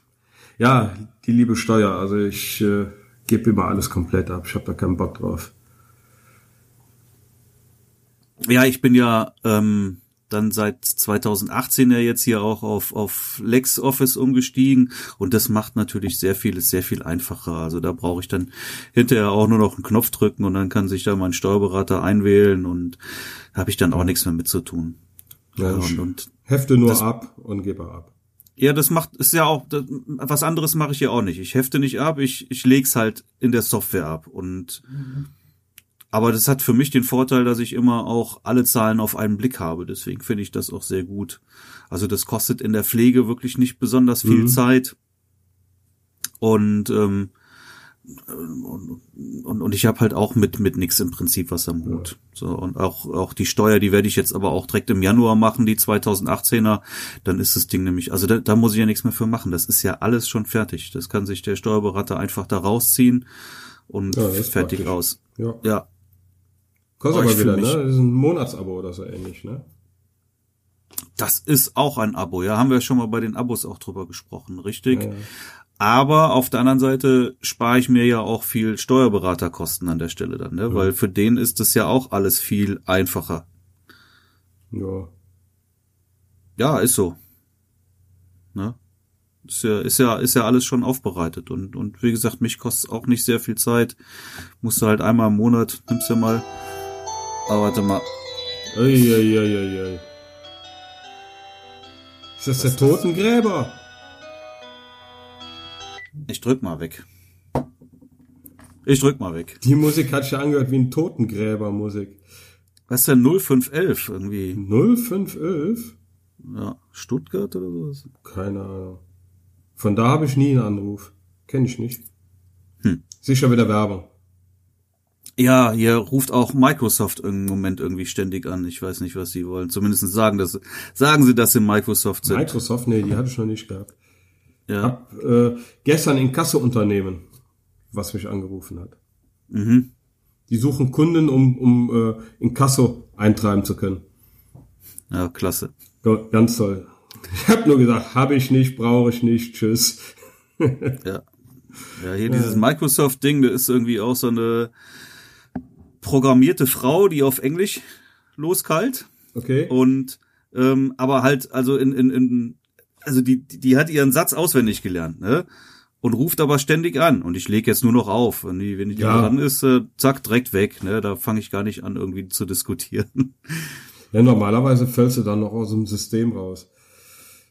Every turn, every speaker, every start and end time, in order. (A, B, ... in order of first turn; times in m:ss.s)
0:00.6-0:05.5 A
0:08.4-0:23.0 B
0:23.5-0:25.0 B
0:25.6-0:28.1 A
0:25.6-0:26.3 B
0:28.6-0:35.2 B
0:36.1-0:44.9 B
0:44.2-0:44.6 A
0:46.4-0:47.3 B
0:48.2-1:03.2 B
1:03.9-1:05.9 B
1:04.1-1:05.6 A
1:07.0-1:09.6 A
1:07.1-1:07.8 B
1:11.2-1:15.1 B
1:14.9-1:15.3 A
1:15.8-1:23.4 B
1:24.7-1:25.1 A
1:26.6-1:27.2 B
1:29.4-1:34.0 B
1:34.6-1:36.4 B
1:37.5-1:38.0 B
1:38.7-1:40.0 A
1:42.4-1:43.8 A
1:42.6-1:43.2 B
1:46.3-1:47.0 B
1:48.8-1:49.6 B
1:49.6-1:52.2 A
1:52.9-1:54.6 B
1:54.5-1:56.0 A
1:56.4-1:58.1 B
1:58.2-1:59.0 A
1:59.8-2:02.0 A
2:03.2-2:04.1 A
2:05.4-2:12.6 B
2:12.2-2:13.9 A
2:14.7-2:14.9 B
2:14.8-2:17.2 A
2:17.9-2:19.0 A
2:19.5-2:19.9 B
2:20.5-2:24.0 A
2:25.1-2:25.7 B
2:26.0-2:30.0 A
2:30.6-2:31.0 A
2:31.9-2:34.7 B
2:32.2-2:32.6 A
2:36.0-2:37.8 B
2:38.4-2:39.1 B
2:39.3-2:39.7 A
2:39.7-2:45.5 B
2:46.0-2:53.8 B
2:48.9-2:49.4 A
2:54.1-2:56.7 A